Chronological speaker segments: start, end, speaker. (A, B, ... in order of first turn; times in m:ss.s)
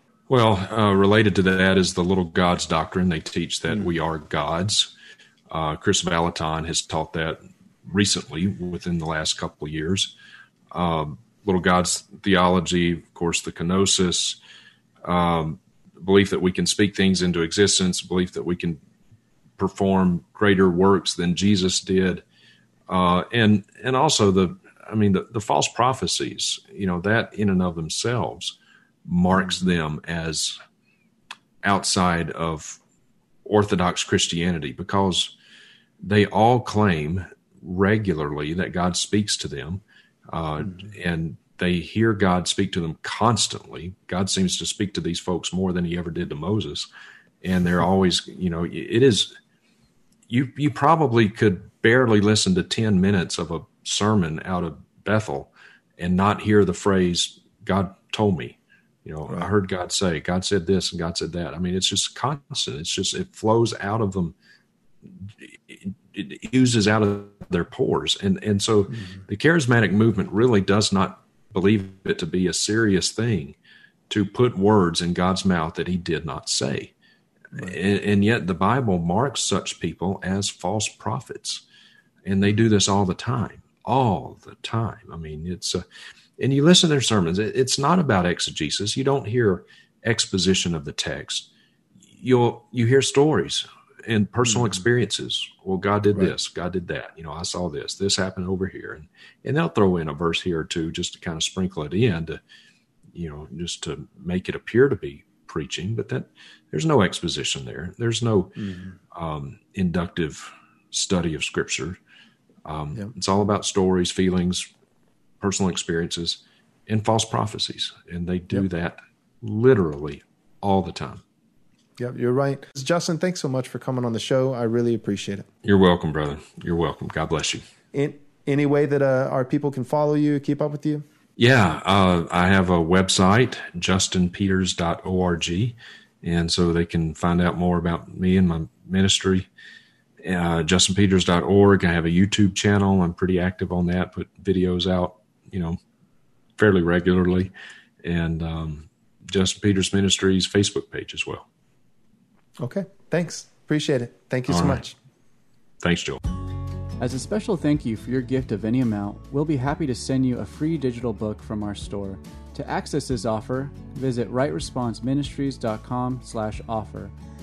0:00.3-0:04.9 A
0:05.5-0:10.1 A
0:10.7-0:14.4 A
0:15.0-0:18.8 A
0:19.6-0:22.2 A
0:22.9-0:30.6 A
0:31.6-0:32.8 A
0:33.4-0:35.3 A
0:36.0-0:46.9 A
0:47.4-0:49.3 A
0:50.3-1:04.3 A
1:05.0-1:13.6 A
1:14.1-1:16.9 A
1:17.5-1:21.6 A
1:22.2-1:25.8 A
1:26.4-1:31.5 A
1:32.1-1:42.4 A
1:43.1-1:52.0 A
1:48.6-1:48.9 B
1:52.6-1:54.7 A
1:55.4-2:01.2 A
2:02.0-2:05.5 B
2:05.6-2:07.6 A
2:07.9-2:11.0 B
2:11.4-2:19.5 A
2:20.2-2:25.8 A
2:26.6-2:31.4 A
2:32.6-2:35.0 B
2:34.5-2:34.8 A
2:35.8-2:36.2 A
2:37.0-2:47.1 C